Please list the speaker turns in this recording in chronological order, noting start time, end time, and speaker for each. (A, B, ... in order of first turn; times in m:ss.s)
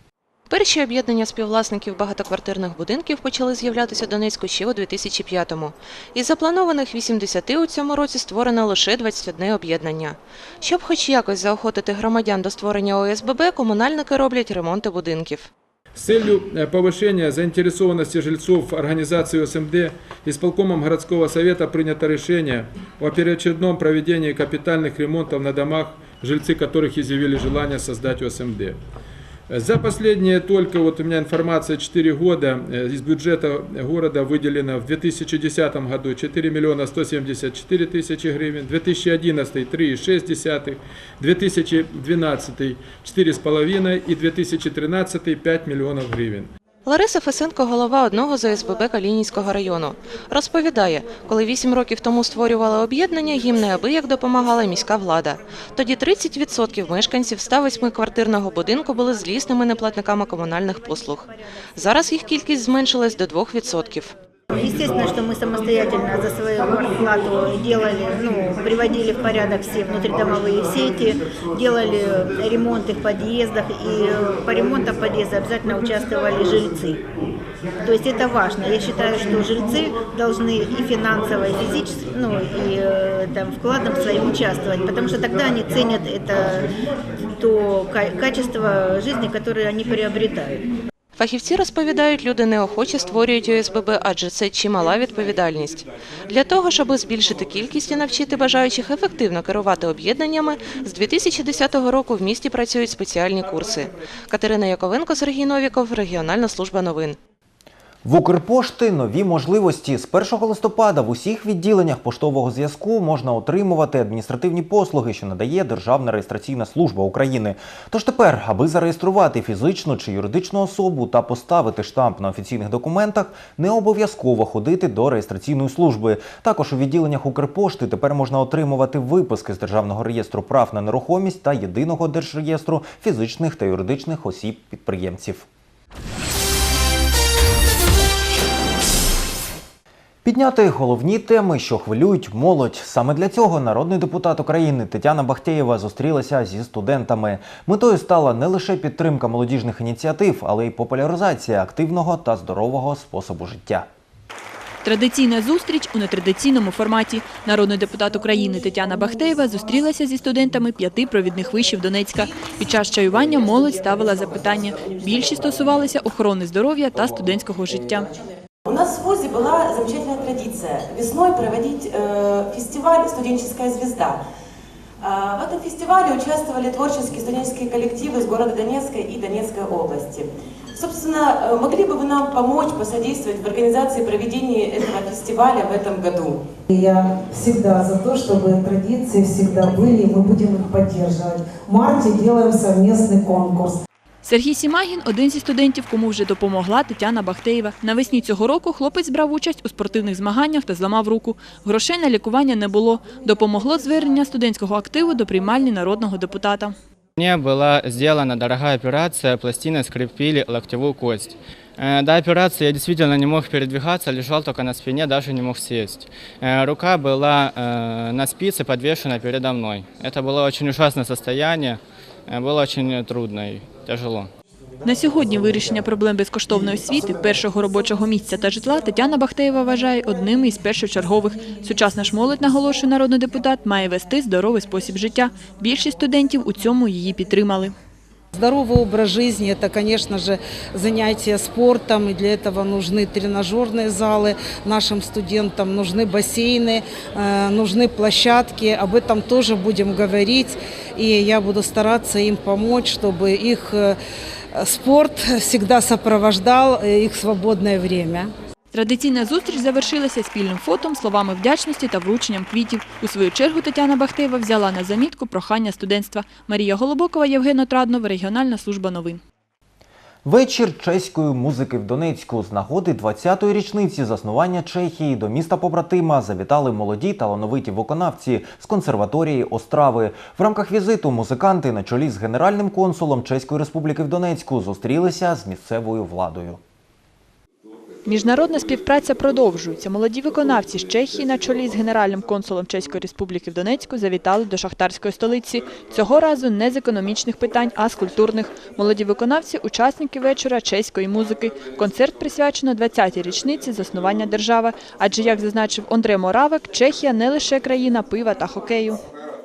0:00.5-0:15.5 A
0:16.0-0:28.8 B
0:29.5-0:46.5 B
0:46.8-1:04.1 A
1:04.5-1:17.0 C
1:17.8-1:26.7 C
1:27.3-1:30.7 C
1:31.2-1:47.2 A
1:48.0-2:15.5 D
2:20.2-2:33.9 D
2:34.8-2:48.1 E
2:48.6-2:54.2 F
2:55.0-3:06.4 F
3:06.7-3:13.8 G
3:14.2-3:26.7 E
3:27.2-3:44.3 H
3:44.8-3:57.7 E
3:58.3-4:14.0 G
4:14.6-4:18.3 G
4:18.7-4:29.2 E
4:30.2-4:46.6 D
4:48.0-5:09.0 E